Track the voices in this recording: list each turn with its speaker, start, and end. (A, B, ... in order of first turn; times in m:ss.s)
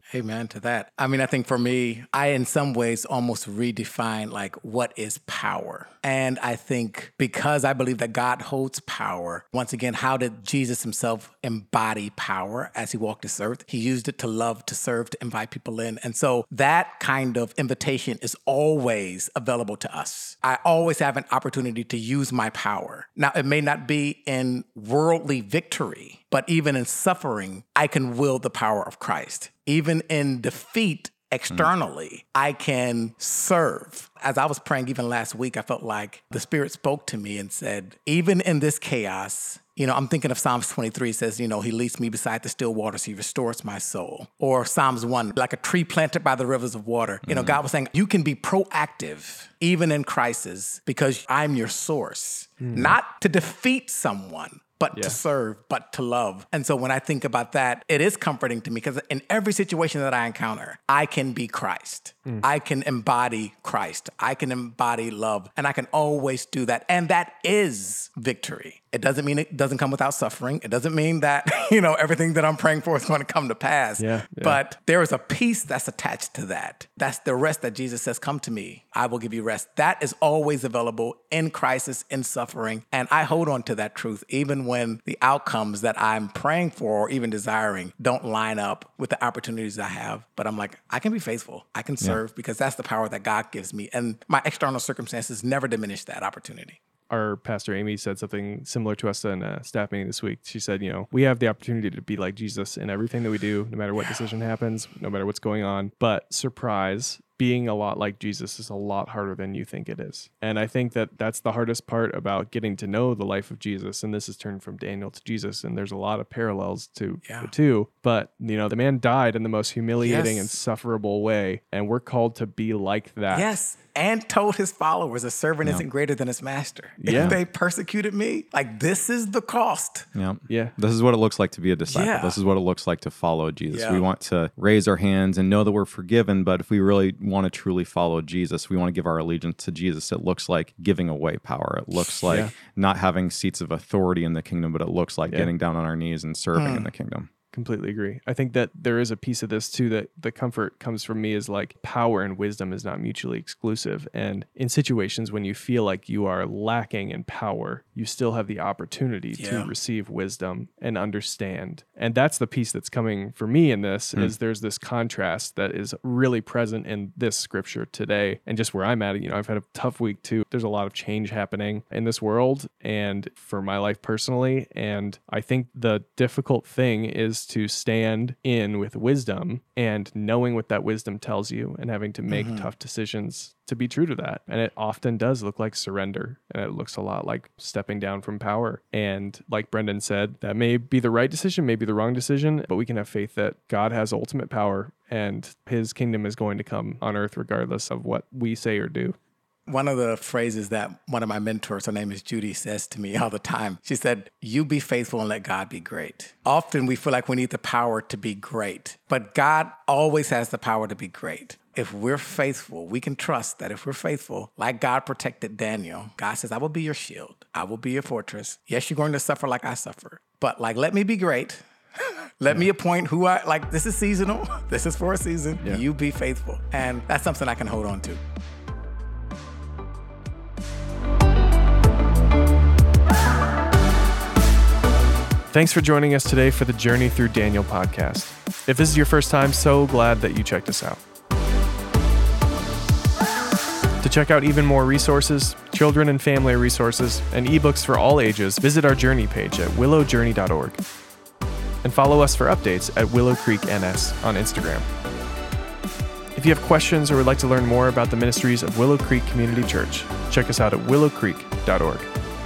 0:00.1-1:36.8 A
0:47.2-0:47.6 B
0:52.6-0:53.0 C
1:14.0-1:14.6 C
1:37.1-2:03.5 C
1:57.2-1:57.5 A
2:00.0-2:00.5 A
2:03.3-2:10.1 A
2:07.0-2:07.4 C
2:10.2-2:27.3 B
2:10.5-2:10.8 C
2:11.9-2:12.4 A
2:13.7-2:14.0 A
2:22.3-2:22.5 C
2:26.6-2:26.9 A
2:27.5-3:19.2 C
2:39.4-2:39.7 A
3:02.3-3:02.7 A
3:19.7-3:48.2 A
3:55.5-4:01.0 C
4:04.0-4:10.8 C
4:11.8-4:14.9 C
4:16.4-4:22.1 C